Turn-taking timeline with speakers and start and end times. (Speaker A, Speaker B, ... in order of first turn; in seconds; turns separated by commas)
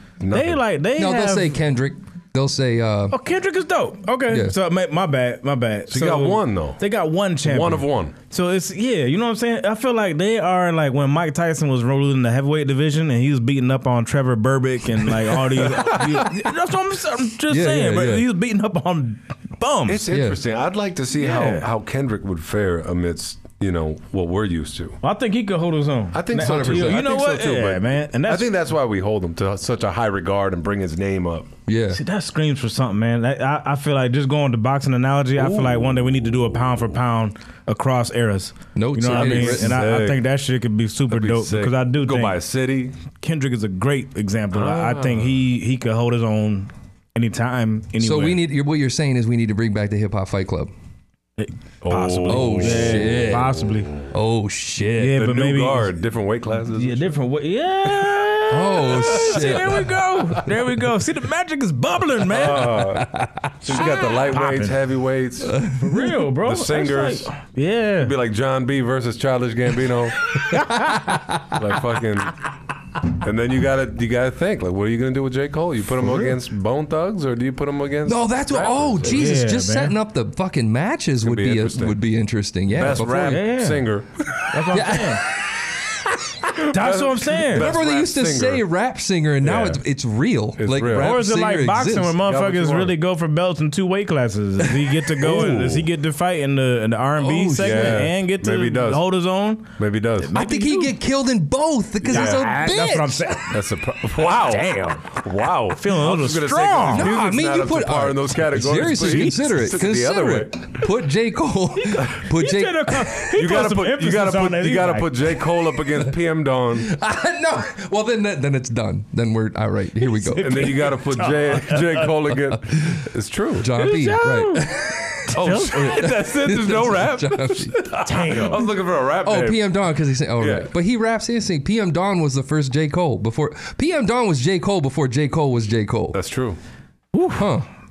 Speaker A: 0.2-0.6, Speaker B: 0.3-1.6, Speaker C: 0.9-3.2, Speaker B: 3.1-20.1, Speaker C: 4.3-4.5, Speaker A: 5.9-6.8, Speaker A: 7.4-8.1, Speaker C: 17.5-18.2, Speaker A: 19.9-25.0, Speaker C: 20.1-20.4, Speaker B: 21.2-21.7, Speaker B: 25.0-28.5, Speaker A: 26.1-31.5, Speaker C: 26.4-27.0, Speaker C: 31.7-32.0, Speaker B: 31.9-42.4, Speaker A: 35.3-36.3, Speaker C: 38.7-39.8, Speaker A: 39.1-40.2, Speaker A: 41.1-43.0, Speaker B: 43.1-48.4, Speaker A: 44.5-45.3, Speaker C: 48.0-50.7, Speaker B: 51.4-53.9, Speaker A: 51.8-54.1, Speaker C: 52.3-53.5, Speaker C: 54.1-55.1, Speaker B: 55.0-56.0, Speaker A: 55.1-57.1, Speaker B: 56.8-62.8, Speaker C: 58.5-59.9, Speaker A: 62.3-65.6, Speaker C: 63.0-63.5, Speaker B: 63.7-64.7, Speaker C: 65.5-65.8, Speaker B: 65.8-68.1, Speaker A: 66.3-67.3, Speaker A: 68.0-70.2, Speaker B: 70.5-71.4, Speaker A: 71.5-72.3, Speaker A: 73.2-79.3, Speaker C: 78.0-83.5, Speaker B: 79.0-80.0, Speaker A: 81.2-82.0, Speaker A: 82.7-84.1, Speaker B: 83.3-83.9, Speaker C: 84.4-85.3, Speaker B: 84.5-85.2, Speaker B: 86.6-87.7, Speaker A: 86.7-88.7, Speaker C: 87.5-92.2, Speaker A: 89.4-89.8, Speaker A: 90.6-91.2, Speaker B: 90.8-100.9, Speaker A: 92.2-92.9, Speaker A: 95.2-95.9, Speaker C: 95.3-95.7, Speaker C: 97.2-98.1, Speaker A: 97.6-99.1, Speaker A: 99.8-100.3, Speaker C: 100.3-103.3, Speaker B: 102.0-103.5, Speaker A: 102.1-102.4, Speaker A: 103.5-110.7, Speaker B: 104.1-107.2, Speaker C: 106.9-113.2, Speaker B: 109.0-109.3, Speaker B: 111.8-115.1, Speaker A: 113.3-116.9, Speaker C: 116.8-120.7, Speaker B: 120.2-122.1, Speaker A: 120.4-123.7, Speaker C: 123.6-127.8, Speaker B: 123.8-124.7, Speaker B: 125.3-126.1, Speaker A: 125.4-130.7, Speaker B: 128.0-128.6, Speaker C: 129.2-136.2, Speaker A: 136.1-136.6, Speaker B: 137.1-137.5, Speaker C: 137.3-137.7